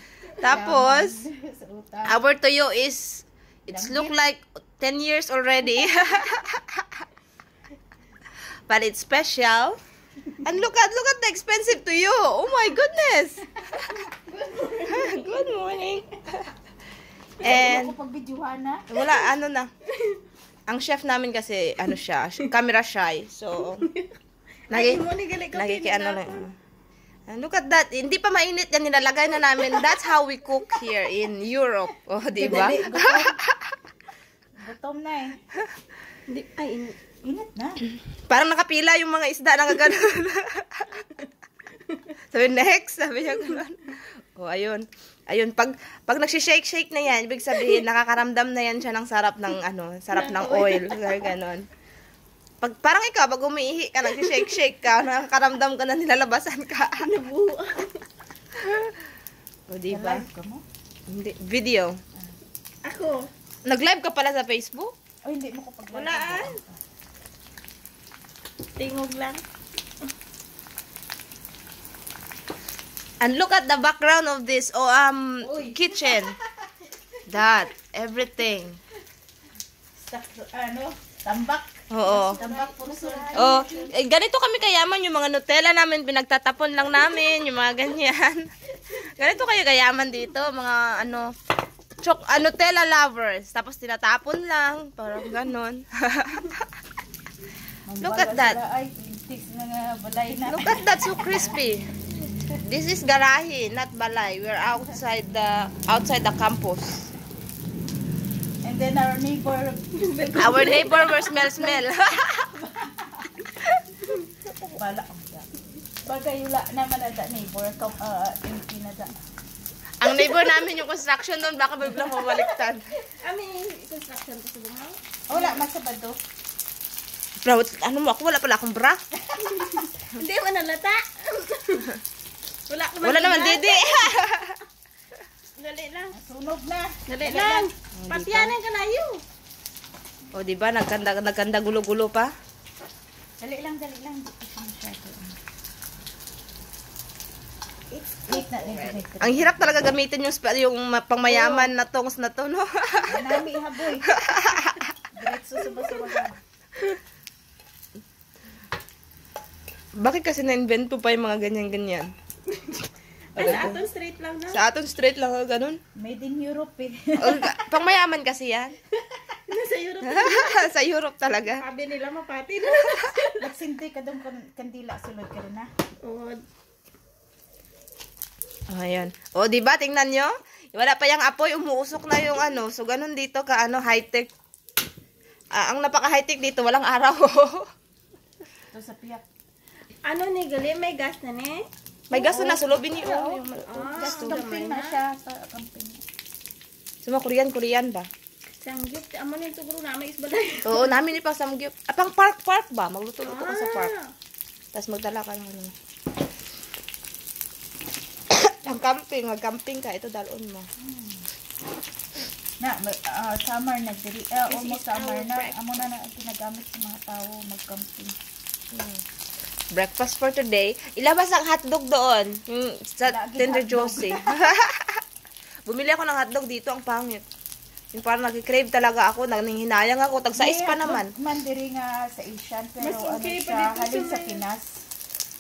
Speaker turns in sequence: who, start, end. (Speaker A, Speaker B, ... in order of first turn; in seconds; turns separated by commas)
Speaker A: 0.4-1.2, Speaker B: 0.4-2.2, Speaker A: 2.1-7.0, Speaker B: 3.7-4.2, Speaker A: 8.7-9.8, Speaker A: 10.4-13.9, Speaker C: 13.9-15.8, Speaker A: 14.8-16.5, Speaker A: 17.4-18.0, Speaker B: 17.4-18.9, Speaker A: 18.9-19.7, Speaker C: 19.9-20.2, Speaker A: 20.7-23.9, Speaker C: 23.6-24.2, Speaker C: 24.7-26.5, Speaker A: 24.7-26.5, Speaker A: 27.3-33.5, Speaker B: 32.3-33.4, Speaker B: 34.6-35.4, Speaker C: 36.3-37.0, Speaker B: 37.2-37.8, Speaker A: 38.3-41.1, Speaker A: 42.3-51.6, Speaker C: 47.5-47.8, Speaker C: 50.1-51.4, Speaker A: 52.6-57.2, Speaker C: 54.2-54.6, Speaker C: 57.0-58.0, Speaker A: 58.6-58.9, Speaker A: 59.7-60.2, Speaker B: 59.9-60.6, Speaker A: 61.1-62.0, Speaker C: 62.9-63.3, Speaker A: 63.7-64.9, Speaker B: 65.2-66.8, Speaker C: 65.9-66.6, Speaker C: 68.8-69.4, Speaker A: 73.2-76.3, Speaker B: 75.4-76.7, Speaker A: 77.3-78.8, Speaker B: 80.0-83.9, Speaker A: 81.9-82.4, Speaker C: 82.1-83.9, Speaker A: 83.4-91.3, Speaker A: 92.0-96.7, Speaker B: 97.9-101.4, Speaker A: 98.0-98.6, Speaker A: 100.5-101.8, Speaker A: 102.6-107.1, Speaker B: 108.6-111.9, Speaker C: 110.0-111.2, Speaker A: 110.4-112.5, Speaker B: 112.5-113.4, Speaker C: 114.1-114.5, Speaker B: 114.8-115.5, Speaker B: 116.1-119.2, Speaker A: 120.0-122.8, Speaker C: 120.1-120.6, Speaker C: 121.9-125.6, Speaker B: 125.3-126.2, Speaker A: 127.4-129.0, Speaker C: 129.4-132.0, Speaker C: 132.7-134.2, Speaker A: 133.0-134.6, Speaker C: 135.6-136.2, Speaker B: 136.1-137.7, Speaker C: 137.1-139.2, Speaker A: 137.9-138.6, Speaker A: 140.3-142.3, Speaker B: 143.4-145.4, Speaker C: 147.9-148.9, Speaker B: 148.3-149.9, Speaker A: 149.2-153.4, Speaker C: 151.3-151.7, Speaker B: 153.1-154.2, Speaker A: 154.1-154.9, Speaker B: 155.1-156.4, Speaker A: 160.0-162.1, Speaker C: 162.5-164.6, Speaker A: 163.4-163.8, Speaker B: 163.4-163.8, Speaker A: 164.5-165.8, Speaker B: 165.9-167.7, Speaker A: 167.2-168.8, Speaker C: 169.5-170.7, Speaker A: 170.0-171.6, Speaker C: 171.6-173.5, Speaker B: 173.4-175.7, Speaker C: 176.0-176.4, Speaker A: 178.7-184.3, Speaker A: 185.5-187.7, Speaker B: 188.7-189.2, Speaker C: 190.0-191.6, Speaker A: 192.1-194.4, Speaker B: 192.2-193.4, Speaker C: 192.9-195.0, Speaker B: 193.9-196.0, Speaker A: 197.0-198.1, Speaker C: 198.6-201.0, Speaker A: 200.7-203.9, Speaker C: 203.3-204.1, Speaker A: 204.7-205.7, Speaker A: 208.3-210.7, Speaker B: 210.8-211.3, Speaker B: 212.6-218.2, Speaker C: 214.5-215.6, Speaker A: 218.7-219.0, Speaker A: 219.7-225.0, Speaker B: 223.1-224.5, Speaker A: 225.7-227.2, Speaker A: 227.9-231.1, Speaker B: 230.3-234.8, Speaker C: 232.8-234.4